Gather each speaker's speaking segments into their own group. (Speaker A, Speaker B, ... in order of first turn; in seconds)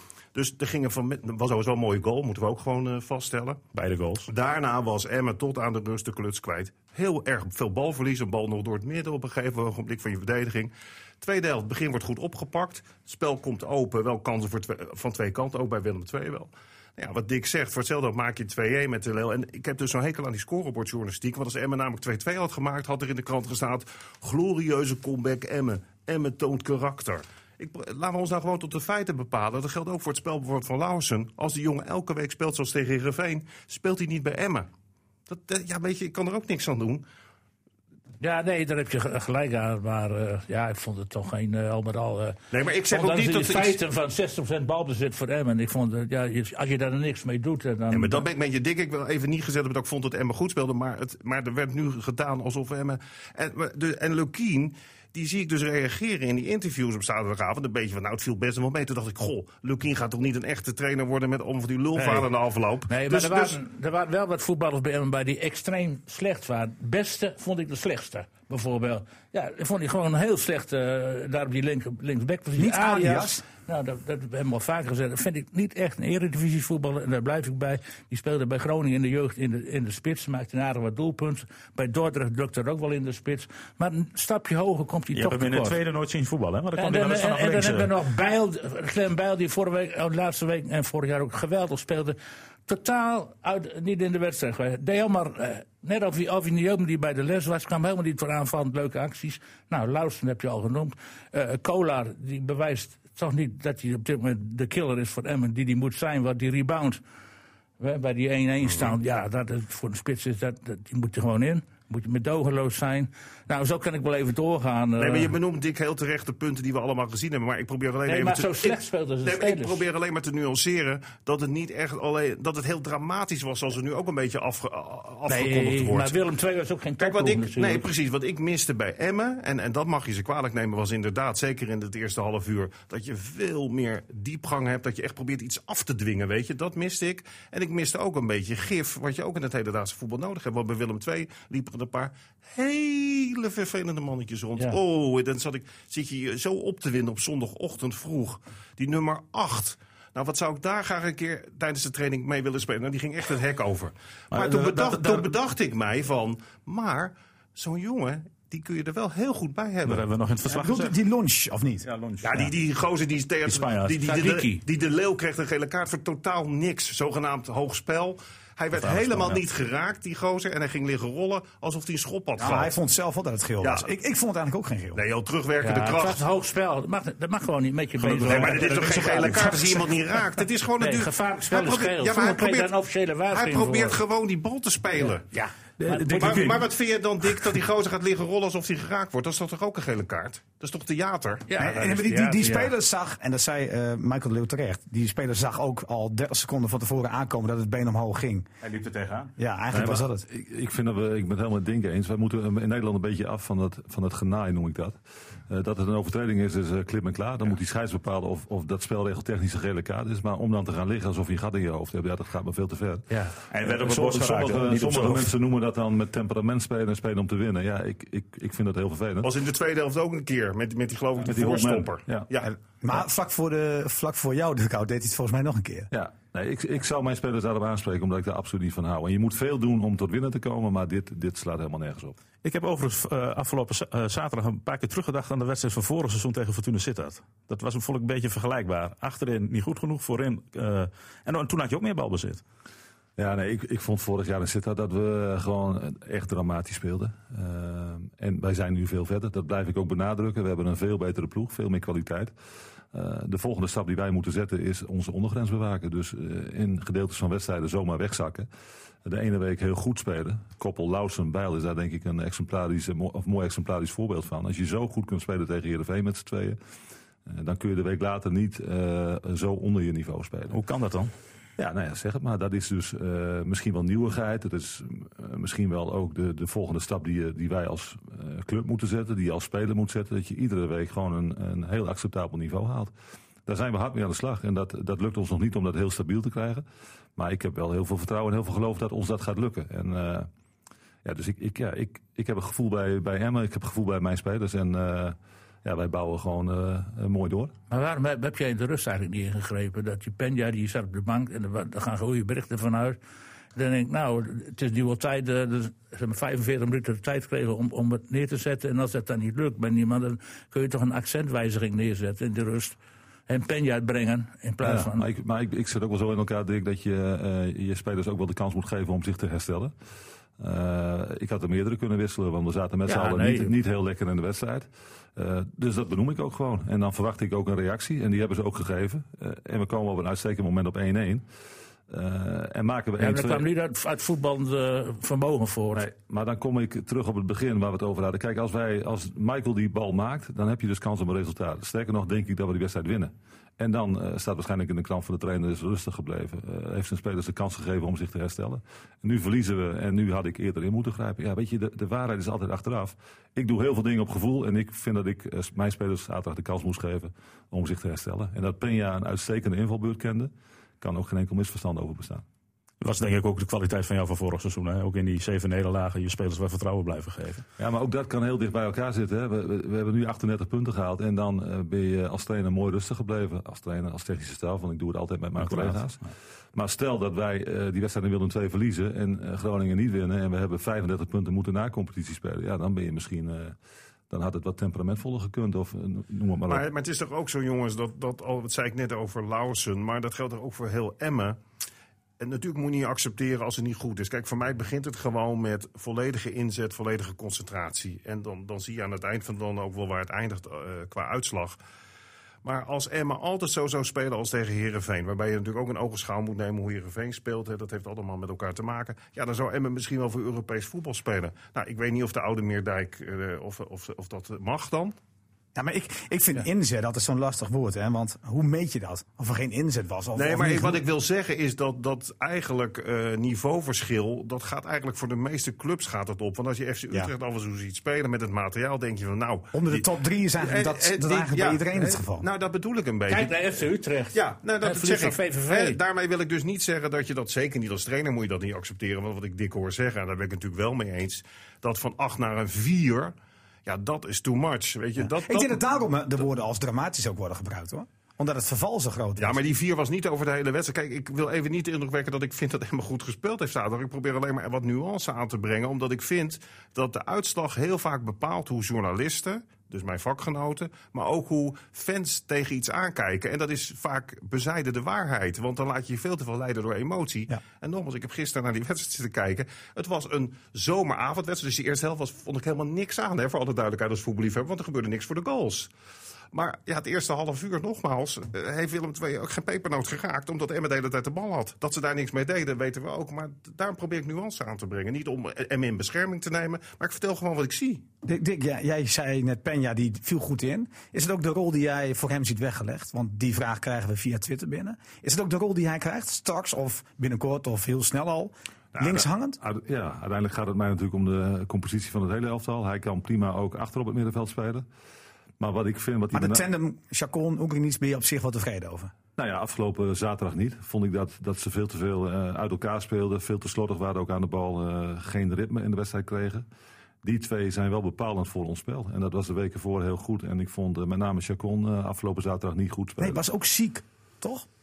Speaker A: 0.3-3.6, 4.3-34.7, 35.3-37.0, 42.5-43.8, 47.9-63.6, 115.0-126.2, 127.0-160.0, 162.2-172.7, 173.6-173.9, 174.9-176.2, 178.2-182.7, 183.3-185.2, 186.1-191.5, 219.2-222.5, 386.5-391.4, 392.2-401.6, 402.4-414.9, 420.1-433.4, 434.1-443.1, 443.6-445.6, 449.2-475.7, 476.3-487.8
Speaker B: 3.7-4.3, 85.1-87.9, 154.3-155.3, 159.8-160.9, 161.8-162.5, 163.4-164.0, 168.7-169.4, 178.0-179.7, 185.8-186.7, 198.6-199.3, 213.5-215.3, 232.4-242.4, 270.5-271.1, 362.8-367.4, 375.4-375.9
Speaker C: 38.2-42.4, 42.9-48.2, 62.0-62.3, 62.9-85.8, 86.8-107.0, 107.8-115.3, 118.0-119.8, 125.3-127.9, 164.1-164.6, 175.6-179.6, 180.8-184.0, 185.0-186.6, 191.5-192.7, 297.7-303.0, 303.5-312.8, 313.3-315.0, 322.9-323.5, 333.0-335.8, 433.1-435.8
Speaker D: 72.6-73.4, 160.5-161.9, 172.4-175.0, 191.6-198.5, 199.4-200.2, 222.4-225.9, 415.5-420.8, 429.5-432.2, 445.0-449.4, 488.0-499.4, 506.1-508.9, 523.0-524.5
Speaker E: 199.7-219.3, 221.3-222.3, 225.9-232.2, 243.2-252.3, 252.9-258.5, 259.0-266.6, 267.2-270.6, 271.6-282.9, 283.4-286.6, 287.1-290.3, 291.0-297.5, 314.6-319.7, 320.4-331.2, 331.9-333.4, 335.7-362.2, 367.6-376.0, 376.5-383.6, 384.1-386.6, 498.8-504.6, 505.4-506.4, 509.2-516.5, 517.0-523.2